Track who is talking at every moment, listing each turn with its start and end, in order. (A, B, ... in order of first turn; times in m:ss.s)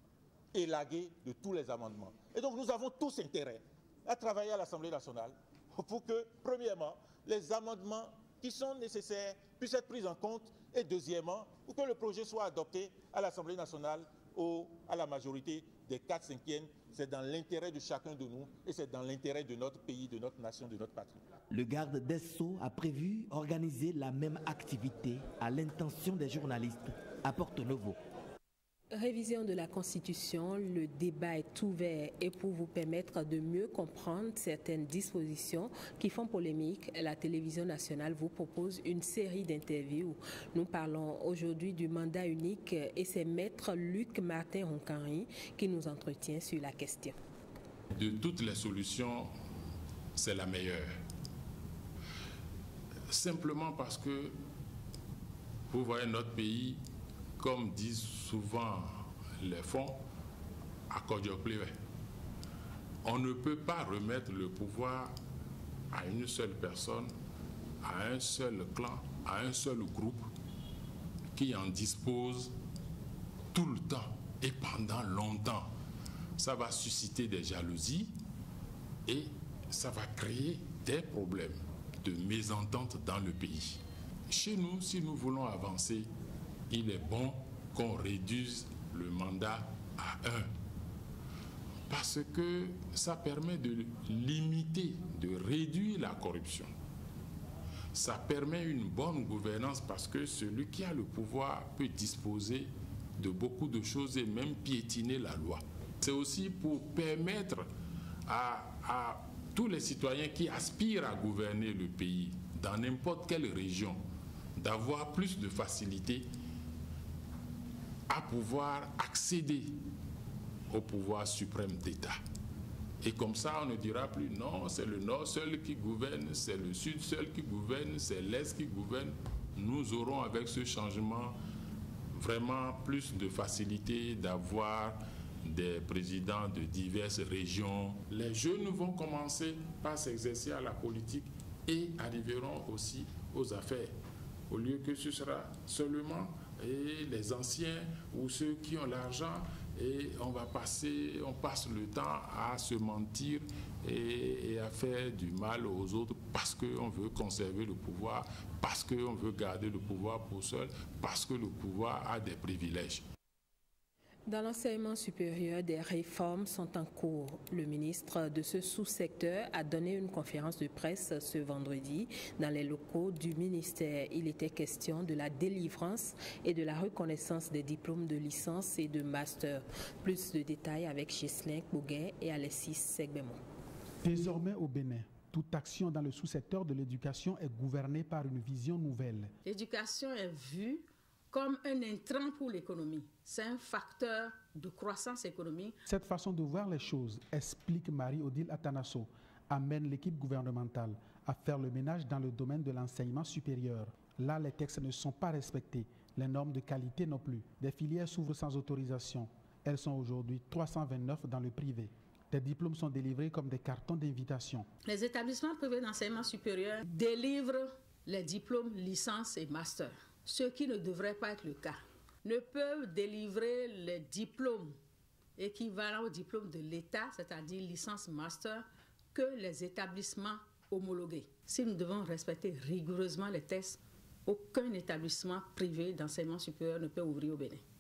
0:00.5-0:21.2 A
0:21.5-0:28.0 B
0:28.9-0:47.2 C
0:47.9-0:49.3 D
0:50.2-0:51.0 D
0:53.1-0:54.4 D
0:55.7-0:56.8 D
0:57.4-1:00.0 D
1:00.9-1:01.8 D
1:03.0-1:05.2 D
1:05.9-1:07.1 D
1:07.8-1:10.2 D
1:11.4-1:12.5 D
1:13.5-1:15.7 D
1:16.4-1:18.1 D
1:19.1-1:26.1 D
1:26.7-1:30.5 D
1:31.9-1:36.7 D
1:37.9-1:47.7 D
1:48.3-1:54.0 D
1:54.6-1:56.3 D
1:58.1-1:59.8 D
2:00.7-2:02.2 D
2:03.0-2:11.4 D
2:12.1-2:23.9 D
2:24.5-2:43.0 D
2:44.3-3:03.4 C
3:04.0-3:09.3 E
3:09.4-3:15.8 F
3:15.9-3:34.7 E
3:34.9-3:44.8 F
3:45.4-3:57.6 F